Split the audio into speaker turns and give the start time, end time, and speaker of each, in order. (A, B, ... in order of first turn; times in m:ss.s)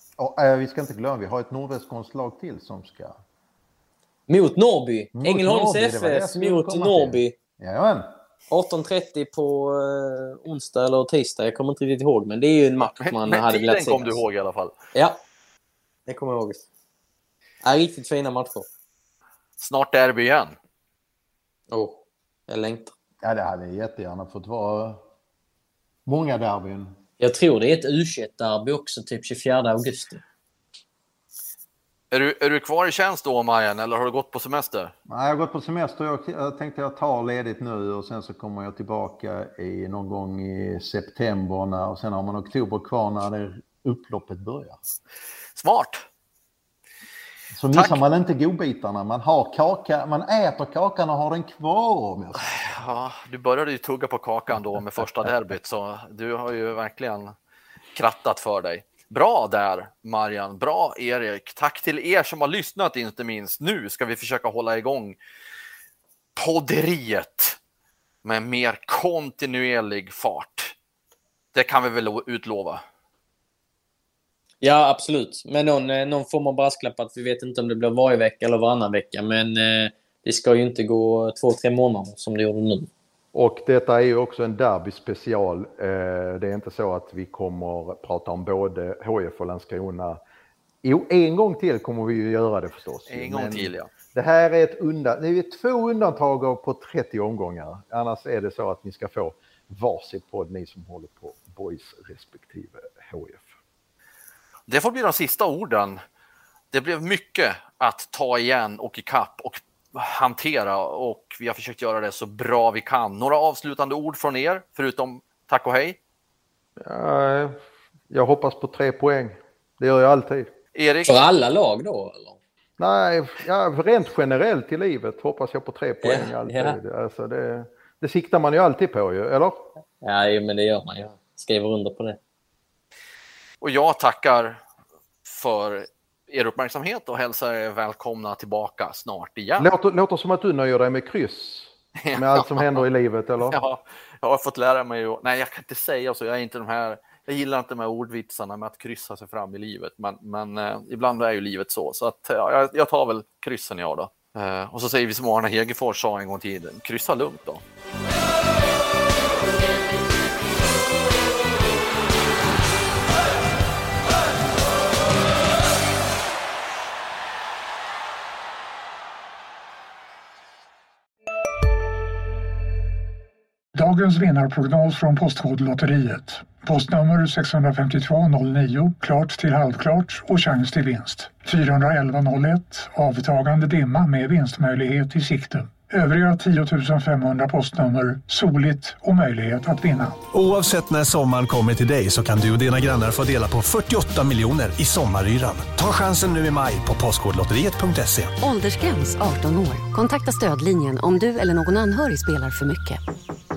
0:00.2-0:03.2 A
0:04.3-0:07.4 B
0:05.1-0:08.1 A
0:08.5-0:14.2 B
0:13.0-0:14.7 C
0:14.9-0:15.2 B
0:16.1-0:16.6 B
0:17.6-0:18.7 B
0:19.6-0:20.6 C
0:21.7-0:22.9 B
0:23.2-0:25.0 A
0:26.1-0:27.0 A
0:27.2-0:30.2 B
0:32.1-0:34.9 C
0:35.1-0:44.8 A
0:45.6-0:46.0 C
0:47.5-0:52.5 A
0:47.7-0:48.0 C
0:52.4-0:57.3 C
0:58.0-1:05.2 C
1:06.4-1:07.6 C
1:08.2-1:10.7 C
1:11.5-1:12.8 C
1:14.6-1:22.9 B
1:23.3-1:30.2 A
1:30.8-1:43.5 A
1:33.1-1:33.9 C
1:44.7-1:46.0 C
1:46.7-1:56.0 C
1:56.8-1:57.6 A
1:58.1-2:00.5 A
2:00.7-2:01.2 C
2:01.1-2:02.4 B
2:02.8-2:09.7 A
2:06.0-2:06.8 B
2:10.0-2:12.2 B
2:13.6-2:14.6 C
2:15.2-2:19.7 C
2:19.6-2:23.6 A
2:22.0-2:22.8 C
2:23.4-2:37.6 C
2:53.7-3:10.2 D
3:10.3-3:18.3 E
3:18.4-3:23.0 F